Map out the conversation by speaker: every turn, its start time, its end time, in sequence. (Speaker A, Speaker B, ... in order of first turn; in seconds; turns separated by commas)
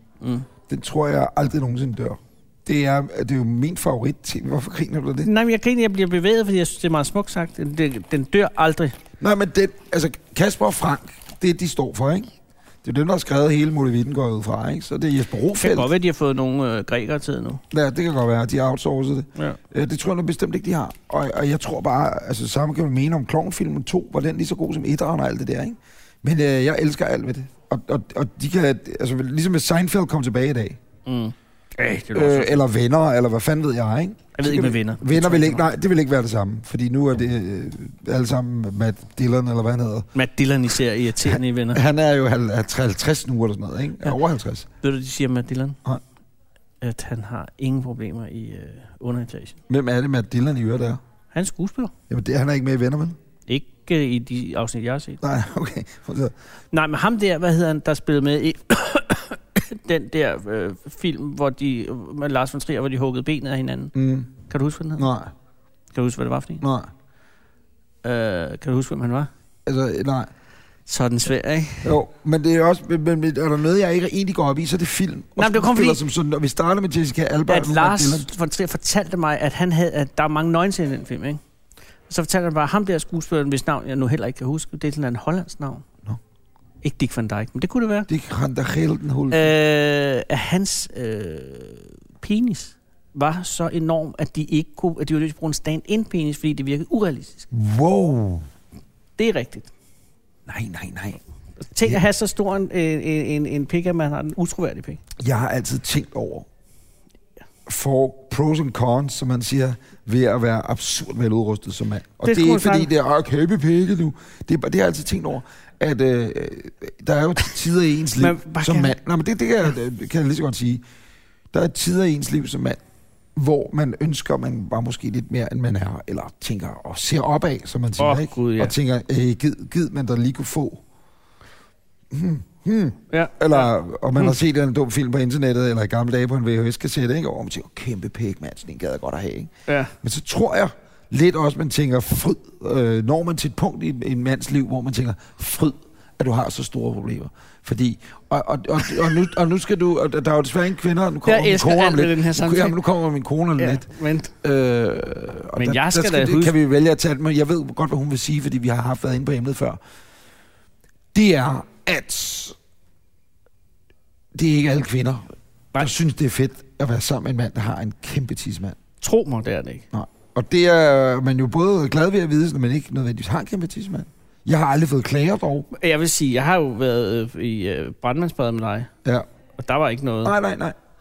Speaker A: 0.2-0.5, Speaker B: 0.7-5.3, Speaker A: 5.2-8.9, Speaker B: 9.2-12.3, Speaker B: 12.8-15.9, Speaker A: 15.6-17.6, Speaker B: 17.7-30.8, Speaker A: 31.1-32.6, Speaker B: 32.1-40.1, Speaker A: 34.3-35.6, Speaker A: 40.1-41.8, Speaker B: 41.2-44.7, Speaker A: 44.8-45.8, Speaker A: 46.8-49.6, Speaker B: 49.7-51.0, Speaker A: 51.3-51.9, Speaker B: 52.1-53.2, Speaker A: 53.5-55.2, Speaker B: 55.2-56.3, Speaker A: 56.7-63.9, Speaker B: 63.9-64.3, Speaker A: 64.5-65.1, Speaker B: 65.0-65.3, Speaker A: 65.9-66.6, Speaker B: 66.6-66.9, Speaker A: 68.0-69.3, Speaker B: 69.7-70.3, Speaker A: 70.8-71.9, Speaker B: 71.8-78.3, Speaker A: 75.4-76.0, Speaker A: 77.5-81.4, Speaker A: 82.1-85.8, Speaker A: 86.8-88.1, Speaker B: 88.1-89.5, Speaker A: 89.3-97.5, Speaker B: 97.5-98.5, Speaker A: 99.2-99.7, Speaker B: 100.5-101.2, Speaker A: 101.7-105.0, Speaker B: 105.2-106.5, Speaker B: 107.7-120.8, Speaker A: 112.2-112.9, Speaker A: 118.2-118.9, Speaker B: 121.5-122.8, Speaker B: 123.3-130.8, Speaker A: 128.0-128.7, Speaker B: 132.1-139.5, Speaker A: 133.1-134.3, Speaker A: 139.7-139.9, Speaker B: 140.0-153.9, Speaker A: 151.2-152.8, Speaker A: 153.6-154.3, Speaker B: 154.4-159.8, Speaker A: 155.6-156.5, Speaker B: 161.1-162.6, Speaker B: 164.3-168.8, Speaker A: 169.0-169.8, Speaker B: 169.9-175.7, Speaker A: 175.7-178.9, Speaker A: 179.6-180.3, Speaker B: 180.2-180.8